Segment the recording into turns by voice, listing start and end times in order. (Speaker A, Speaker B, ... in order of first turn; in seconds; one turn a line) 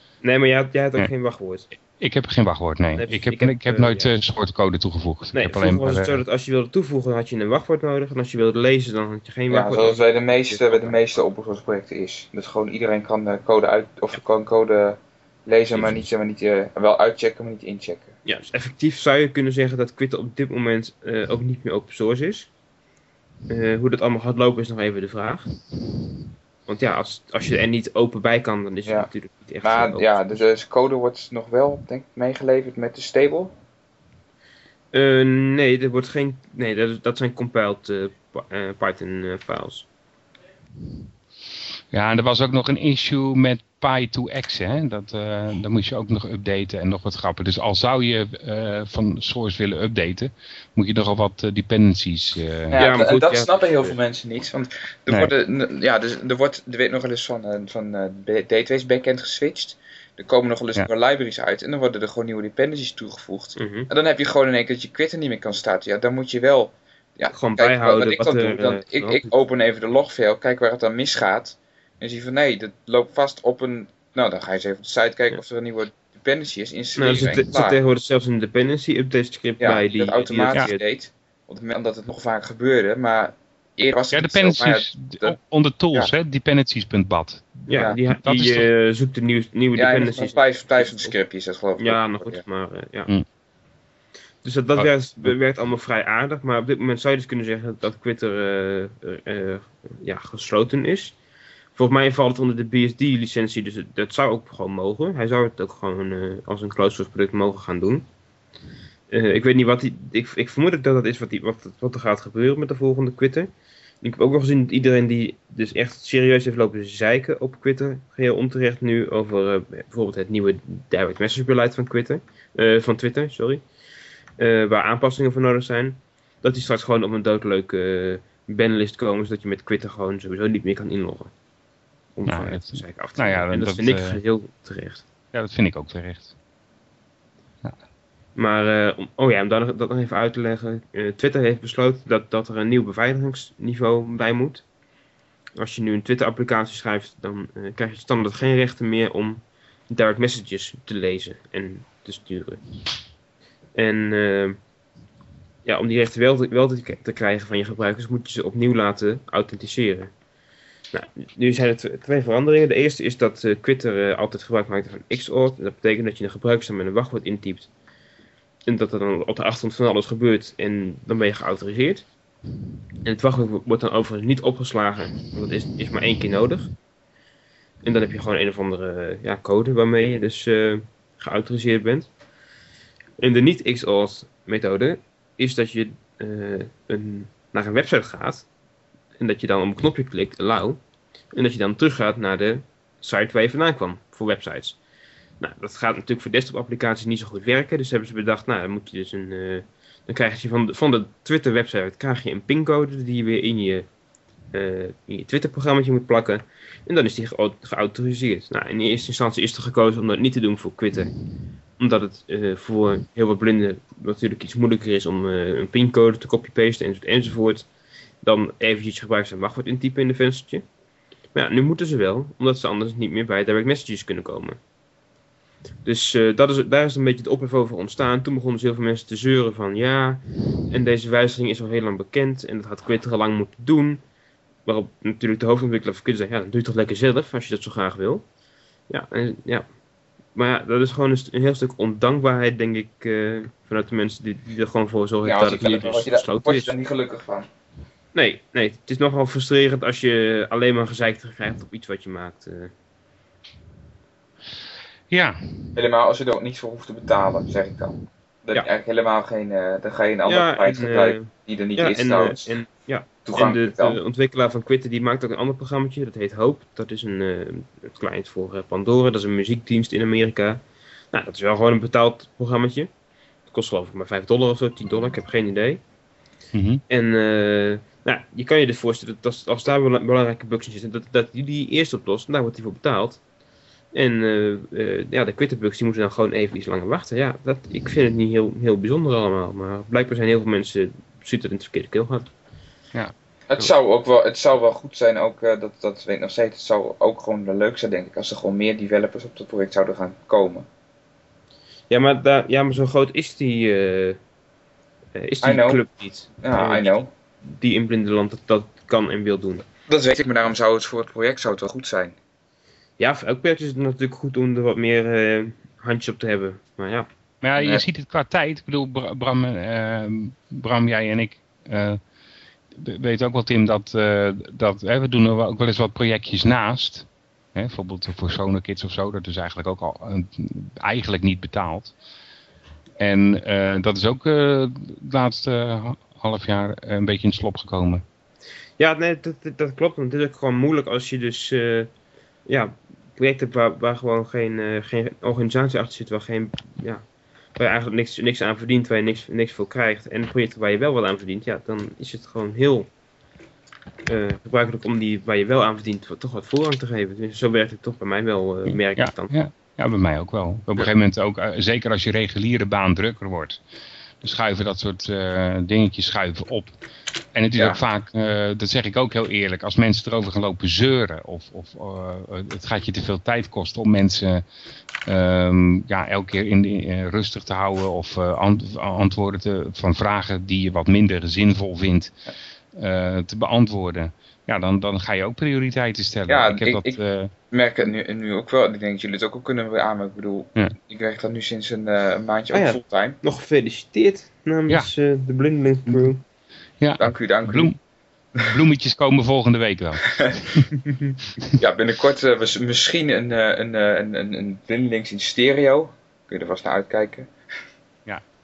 Speaker A: 0.2-1.7
Speaker B: 2.0-6.2
Speaker A: 3.0-4.1
Speaker A: 5.3-11.0
Speaker C: 9.5-18.1
Speaker A: 18.3-22.5
Speaker A: 23.5-25.5
Speaker A: 26.7-30.4
Speaker C: 29.6-33.5
Speaker A: 34.9-39.9
Speaker B: 41.9-52.8
Speaker C: 52.7-77.8
Speaker A: 52.8-54.0
Speaker A: 63.6-63.9
Speaker A: 67.3-69.3
Speaker A: 77.0-80.8
Speaker C: 79.6-85.4
Speaker B: 84.1-88.7
Speaker A: 87.7-91.1
Speaker C: 87.7-88.0
Speaker C: 89.8-92.4
Speaker A: 91.8-93.1
Speaker A: 94.4-101.2
Speaker B: 94.8-95.3
Speaker A: 101.8-108.1
Speaker A: 109.1-113.5
Speaker A: 114.0-123.6
Speaker A: 124.4-131.3
Speaker A: 132.2-135.0
Speaker B: 132.3-134.2
Speaker B: 135.3-136.3
Speaker A: 138.4-144.6
Speaker A: 145.6-152.6
Speaker A: 153.8-154.6
Speaker A: 155.7-160.1
Speaker A: 160.9-167.7
Speaker A: 168.7-172.1
Speaker A: 173.1-176.7
Speaker A: 177.8-182.1
Speaker A: 183.2-188.5
Speaker A: 189.2-190.8
Speaker A: 191.3-194.8
Speaker A: 195.4-203.9
Speaker A: 204.5-211.1
Speaker A: 211.8-217.7
Speaker A: 218.2-220.6
Speaker A: 221.3-224.6
Speaker A: 225.8-234.0
Speaker A: 234.7-238.2
Speaker A: 238.9-239.7
Speaker A: 240.3-246.7
Speaker C: 245.2-247.5
Speaker A: 248.2-252.7
Speaker B: 255.1-255.8
Speaker C: 255.8-262.5
Speaker A: 260.3-270.6
Speaker C: 263.2-264.0
Speaker A: 271.1-272.9
Speaker A: 273.5-275.8
Speaker B: 276.5-276.8
Speaker A: 276.9-283.2
Speaker A: 283.9-292.3
Speaker C: 293.5-300.7
Speaker A: 301.9-304.2
Speaker A: 305.1-309.6
Speaker C: 305.4-305.8
Speaker C: 306.4-307.1
Speaker C: 309.9-312.2
Speaker A: 313.0-317.1
Speaker B: 317.4-322.0
Speaker C: 317.6-317.8
Speaker B: 322.8-331.9
Speaker B: 333.0-338.0
Speaker A: 338.8-341.9
Speaker A: 342.5-347.0
Speaker A: 347.6-352.9
Speaker A: 354.1-359.3
Speaker B: 358.7-363.6
Speaker B: 364.2-366.7
Speaker B: 367.3-374.4
Speaker B: 375.1-382.1
Speaker B: 382.7-387.3
Speaker C: 386.3-387.0
Speaker C: 387.5-393.2
Speaker A: 392.5-396.2
Speaker B: 396.8-397.8
Speaker C: 397.0-397.7
Speaker B: 398.4-400.7
Speaker C: 400.2-400.9
Speaker C: 401.5-407.3